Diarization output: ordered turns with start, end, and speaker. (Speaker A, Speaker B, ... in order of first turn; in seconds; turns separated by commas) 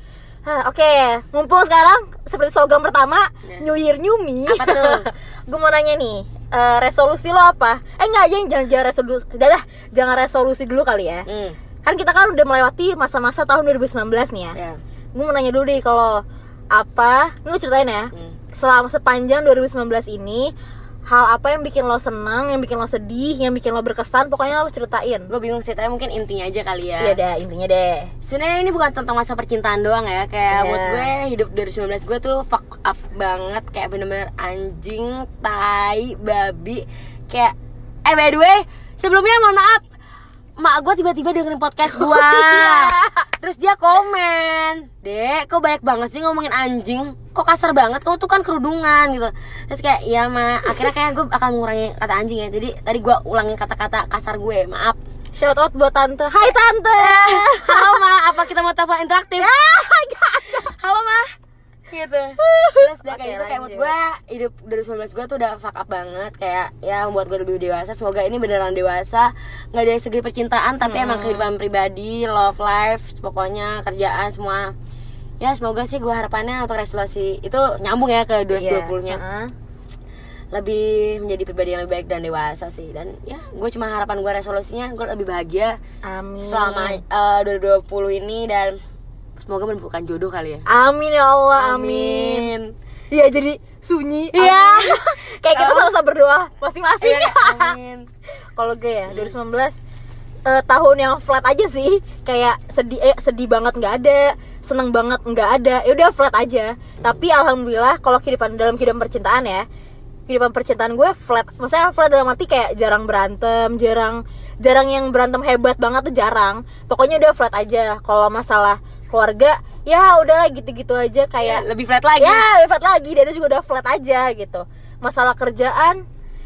Speaker A: 0.5-11.3, Speaker B: 4.5-5.1, Speaker B: 11.3-11.6, Speaker A: 11.8-14.6, Speaker A: 15.1-20.5, Speaker A: 21.1-25.3, Speaker B: 25.3-27.2, Speaker A: 27.0-28.1, Speaker B: 28.2-39.8, Speaker A: 30.5-31.1, Speaker B: 40.6-55.0, Speaker A: 41.9-43.3, Speaker A: 55.3-58.0, Speaker B: 57.0-59.5, Speaker A: 59.4-60.8, Speaker B: 60.7-61.3, Speaker B: 61.9-74.7, Speaker A: 62.4-63.9, Speaker A: 70.8-71.5, Speaker B: 75.4-79.2, Speaker A: 78.5-79.5, Speaker B: 80.5-85.8, Speaker A: 86.0-87.0, Speaker B: 86.4-88.8, Speaker B: 89.4-90.7, Speaker A: 90.7-92.5, Speaker B: 91.6-92.7, Speaker A: 93.1-97.8, Speaker B: 94.3-95.9, Speaker B: 97.0-98.1, Speaker A: 98.6-99.8, Speaker B: 99.1-99.3, Speaker A: 100.5-109.7, Speaker A: 110.3-121.7, Speaker B: 121.4-122.5, Speaker A: 122.2-126.0